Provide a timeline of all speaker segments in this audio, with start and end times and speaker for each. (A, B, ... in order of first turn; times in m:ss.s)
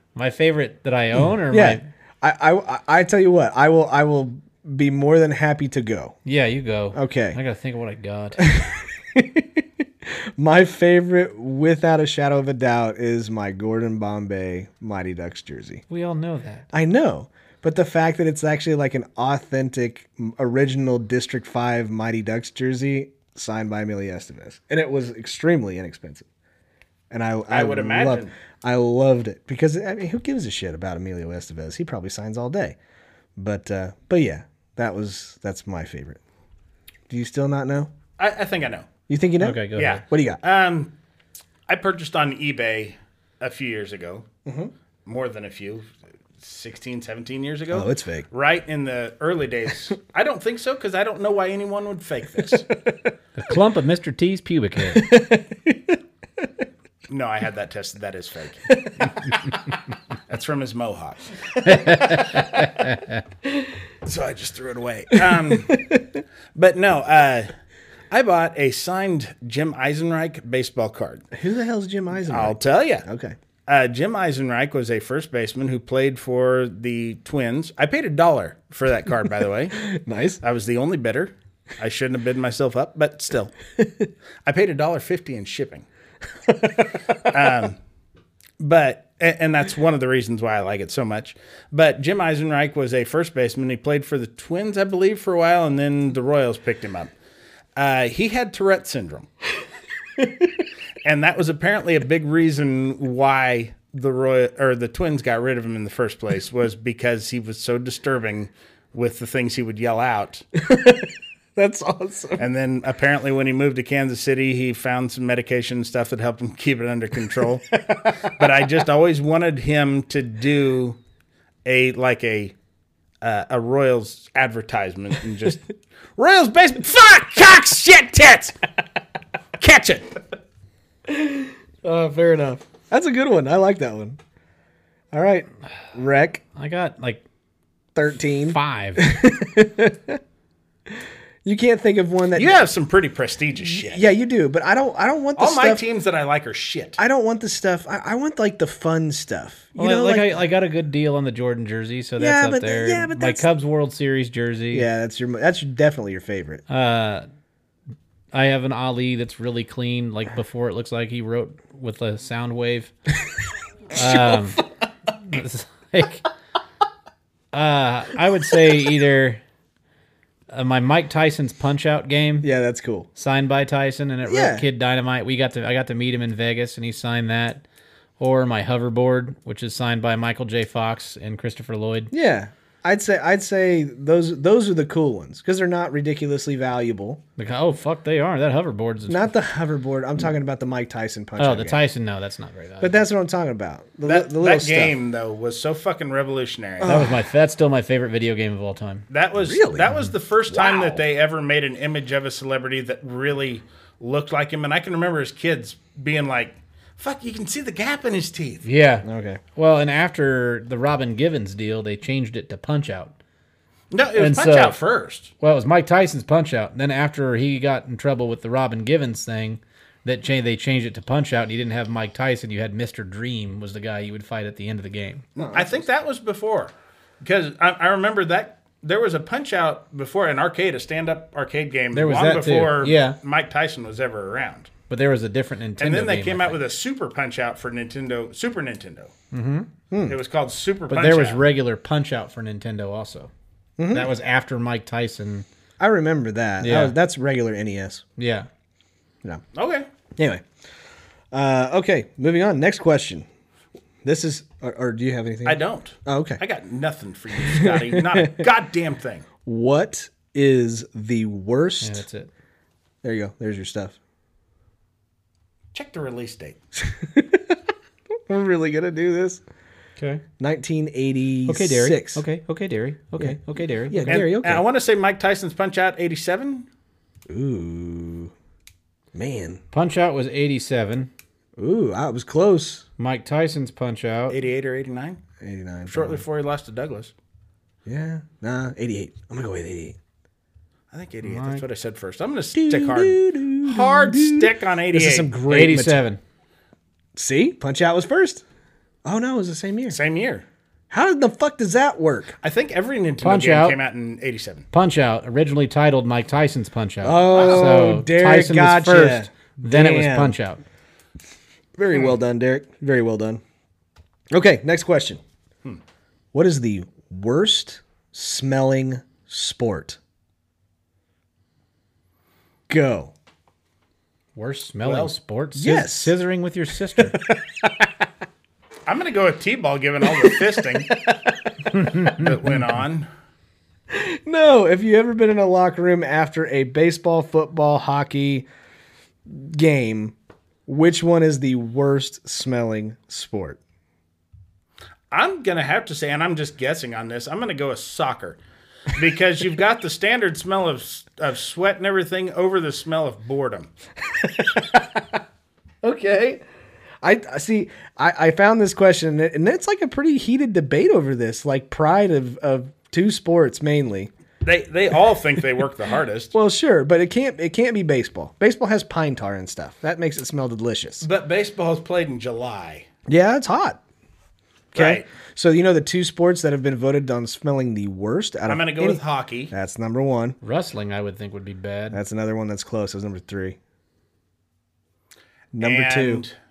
0:00.2-0:01.8 A
0:01.5-0:06.2 B
0:06.3-0:08.5 A
0:06.9-0:07.4 B
0:08.4-0:09.6 B
0:10.4-0:15.8 B
0:15.9-0:16.7 A
0:16.7-0:26.3 B
0:27.1-0:32.8 B
0:27.5-0:28.3 C
0:33.4-0:36.2 B
0:37.1-0:37.9 B
0:38.2-0:38.9 C
0:39.1-0:40.4 B
0:39.4-0:40.0 A
0:39.8-0:40.9 C
0:41.7-0:44.2 C
0:44.5-0:44.7 B
0:45.1-0:45.9 C
0:46.4-0:52.7 C
0:47.7-0:48.3 B
0:53.4-0:55.1 A
0:54.9-0:56.4 B
0:57.1-0:58.8 C
0:58.7-0:59.1 B
1:00.3-1:01.3 C
1:01.6-1:03.2 A
1:04.0-1:05.9 C
1:05.2-1:06.0 B
1:06.6-1:07.5 C
1:08.1-1:11.2 C
1:11.3-1:13.4 B
1:12.3-1:13.1 C
1:13.7-1:19.8 C
1:19.8-1:20.4 B
1:20.4-1:23.5 C
1:24.4-1:25.8 C
1:26.5-1:26.9 B
1:27.2-1:27.8 C
1:28.6-1:37.1 C
1:37.8-1:39.3 C
1:41.0-1:50.4 C
1:50.6-1:52.5 B
1:52.4-2:01.0 C
2:01.6-2:02.6 C
2:03.2-2:08.6 C
2:09.6-2:10.2 C
2:11.1-2:14.2 B
2:15.1-2:16.4 B
2:16.6-2:17.2 A
2:18.0-2:20.2 B
2:18.5-2:19.0 A
2:21.4-2:22.7 B
2:22.4-2:24.1 C
2:23.6-2:25.8 B
2:25.4-2:27.0 C
2:27.0-2:30.4 B
2:29.8-2:34.9 A
2:32.2-2:33.5 B
2:34.7-2:36.6 B
2:36.7-2:37.3 A
2:38.3-2:42.9 A
2:43.9-2:44.6 B
2:43.9-2:44.6 A
2:45.2-2:46.2 A
2:47.5-2:49.4 A
2:50.5-2:52.5 A
2:52.4-2:53.1 B
2:53.2-2:57.6 A
2:54.2-2:54.6 B
2:58.2-3:02.1 A
3:02.1-3:07.2 B
3:07.4-3:09.3 A
3:09.1-3:11.8 B
3:11.4-3:12.9 A
3:12.8-3:15.0 B
3:14.0-3:17.1 C
3:16.8-3:17.2 B
3:16.8-3:19.1 A
3:19.1-3:28.6 C
3:19.4-3:20.0 B
3:20.5-3:21.0 B
3:28.6-3:33.2 A
3:29.0-3:29.4 B
3:33.9-3:35.3 C
3:34.2-3:34.8 A
3:35.4-3:45.3 A
3:45.4-3:45.8 B
3:45.4-3:54.7 C
3:51.9-3:53.2 A
3:54.9-3:56.6 A
3:55.8-3:59.1 C
3:59.3-3:59.7 A
3:59.9-4:00.2 B
4:00.1-4:01.4 C
4:00.9-4:03.3 A
4:03.8-4:04.1 B
4:03.9-4:05.5 A
4:05.8-4:08.0 B
4:06.6-4:06.9 A
4:08.2-4:08.5 A
4:09.6-4:09.9 C
4:10.2-4:10.4 B
4:11.3-4:13.3 B
4:14.0-4:16.4 B
4:15.4-4:19.2 C
4:17.4-4:18.5 B
4:19.4-4:22.0 B
4:21.8-4:22.3 A
4:23.0-4:24.0 B
4:25.7-4:26.6 C
4:26.8-4:27.6 B
4:28.3-4:29.4 B
4:30.0-4:30.2 A
4:30.4-4:32.2 B
4:31.5-4:34.2 A
4:33.2-4:34.6 B
4:34.1-4:36.7 C
4:37.3-4:38.3 B
4:39.1-4:39.6 B
4:39.7-4:41.1 A
4:41.6-4:42.8 B
4:43.0-4:44.4 A
4:44.3-4:45.2 C
4:45.4-4:46.2 B
4:45.9-4:47.1 C
4:47.9-4:50.0 B
4:50.9-4:55.3 C
4:51.2-4:51.6 A
4:52.6-4:56.0 B
4:55.5-4:56.2 A
4:57.2-4:58.4 B
4:59.0-5:00.0 B
4:59.9-5:00.5 C
5:00.9-5:02.4 B
5:02.4-5:04.7 C
5:03.2-5:03.8 A
5:04.7-5:10.6 A
5:07.0-5:10.4 B
5:07.3-5:07.9 C
5:11.8-5:13.4 B
5:14.3-5:15.2 B
5:16.3-5:20.0 B
5:22.7-5:23.1 B
5:24.4-5:27.2 A
5:24.8-5:25.2 C
5:25.6-5:26.2 B
5:27.0-5:27.6 B
5:28.9-5:31.0 C
5:30.0-5:31.5 B
5:31.8-5:32.2 A
5:31.9-5:33.1 C
5:33.9-5:38.5 B
5:39.3-5:40.2 B
5:40.7-5:43.6 B
5:45.1-5:48.4 C
5:48.9-5:53.7 C
5:54.2-5:55.0 B
5:55.8-5:56.4 B
5:57.0-6:04.1 B
6:04.4-6:06.3 C
6:06.3-6:11.1 B
6:11.0-6:12.9 C
6:13.1-6:13.8 B
6:14.7-6:19.0 B
6:14.8-6:15.0 C
6:18.5-6:19.5 C
6:19.5-6:20.4 B
6:20.4-6:22.0 A
6:21.9-6:23.6 B
6:25.5-6:26.2 B
6:25.6-6:26.3 C